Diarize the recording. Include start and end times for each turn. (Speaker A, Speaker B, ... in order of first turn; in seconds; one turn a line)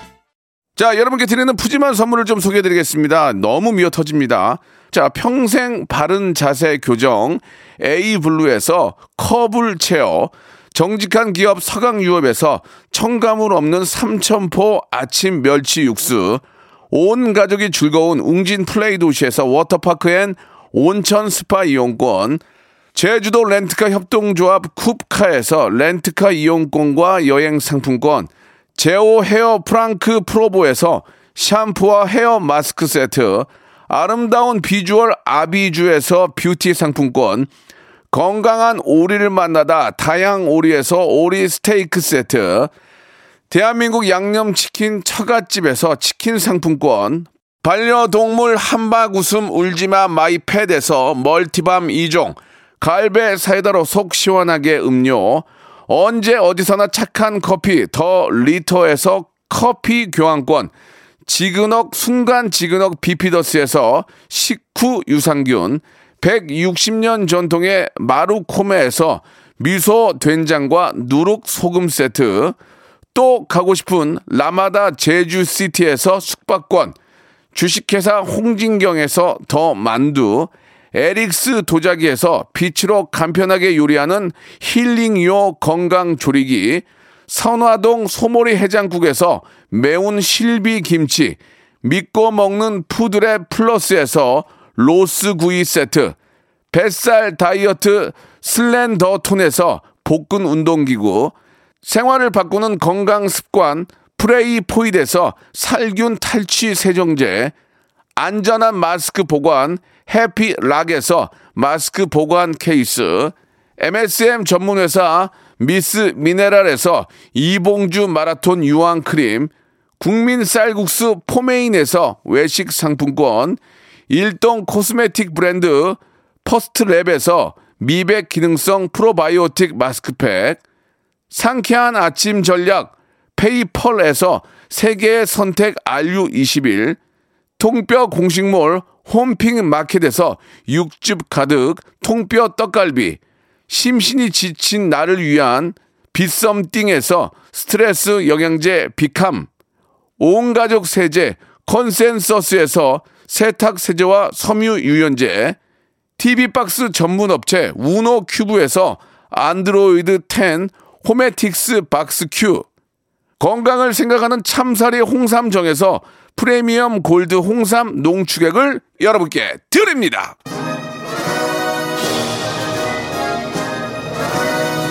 Speaker A: 0.8-22.4
Speaker A: 22.9-37.5
Speaker A: 38.1-42.7
Speaker A: 43.5-60.7
Speaker A: 61.2-72.6
Speaker A: 73.2-77.0
Speaker A: 77.5-96.2
Speaker A: 96.7-107.5
Speaker A: 108.2-130.6
Speaker A: 131.3-137.0
Speaker A: 137.6-149.5
Speaker A: 150.2-155.6
Speaker A: 156.2-162.7
Speaker A: 163.4-170.4